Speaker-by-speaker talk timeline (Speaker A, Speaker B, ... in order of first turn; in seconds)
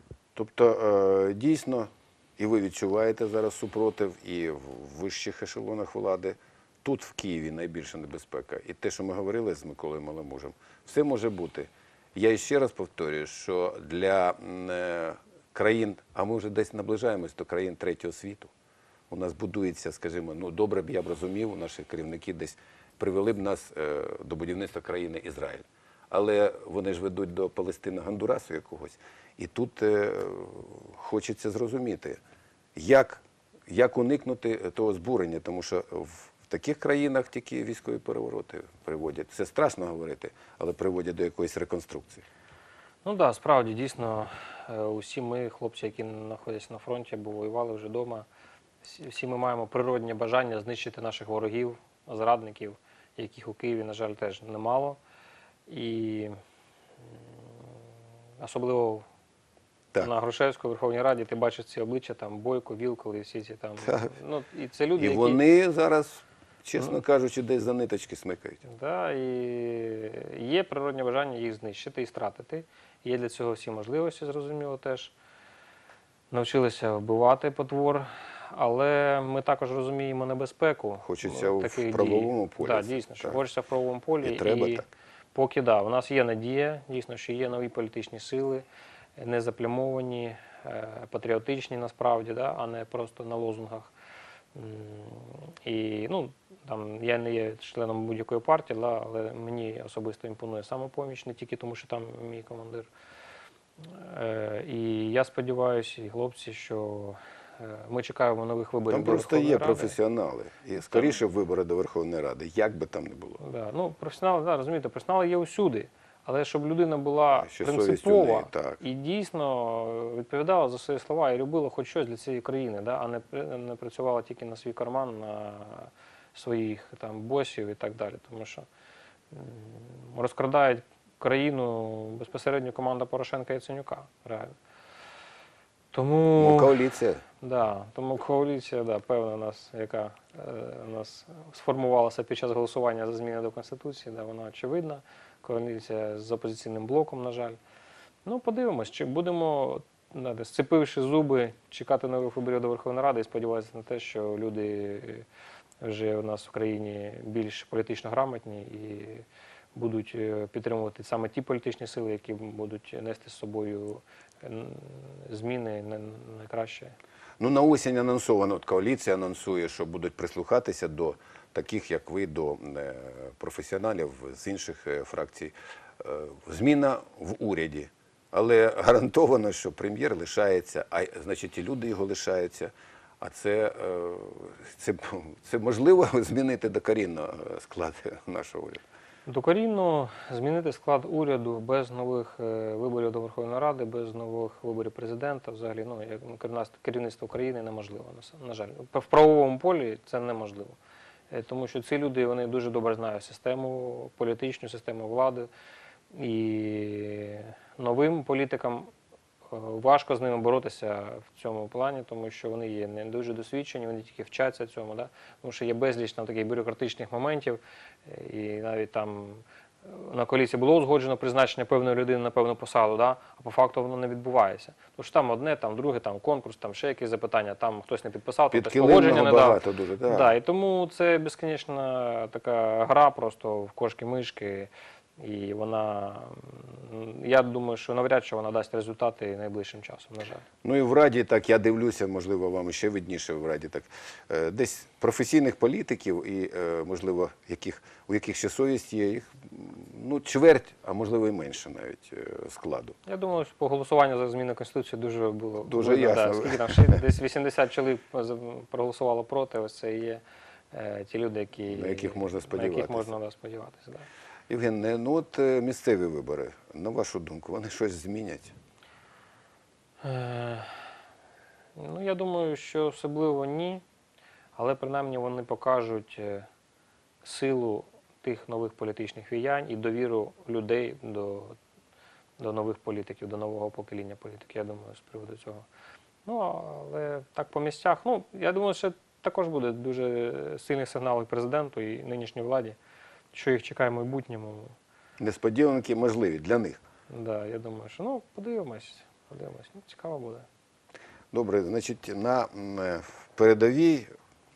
Speaker A: 0.4-18.5, 19.1-32.2, 32.8-42.2, 63.8-64.1, 65.0-68.6, 81.0-83.4, 84.2-84.9, 108.9-113.4, 117.3-118.8, 136.4-137.2, 167.4-188.8, 228.5-230.3, 240.6-253.0, 255.7-257.0, 261.7-263.1, 264.5-268.5, 295.2-296.8, 301.3-304.1
Speaker B: 43.0-48.3, 48.8-55.0, 55.7-56.3, 58.4-59.0, 60.0-65.4, 68.7-75.1, 76.3-88.6, 89.2-93.9, 94.5-102.9, 103.8-109.9, 113.4-128.7, 129.3-134.5, 135.9-136.8, 137.4-147.6, 148.3-155.2, 155.8-159.2, 159.8-166.9, 189.3-200.8, 201.3-205.5, 206.1-208.9, 209.5-240.4, 253.1-260.2, 260.7-264.1, 270.0-270.9, 271.8-273.8, 274.6-276.5, 277.2-281.6, 282.4-285.6, 286.2-292.8, 293.3-294.8, 297.1-300.5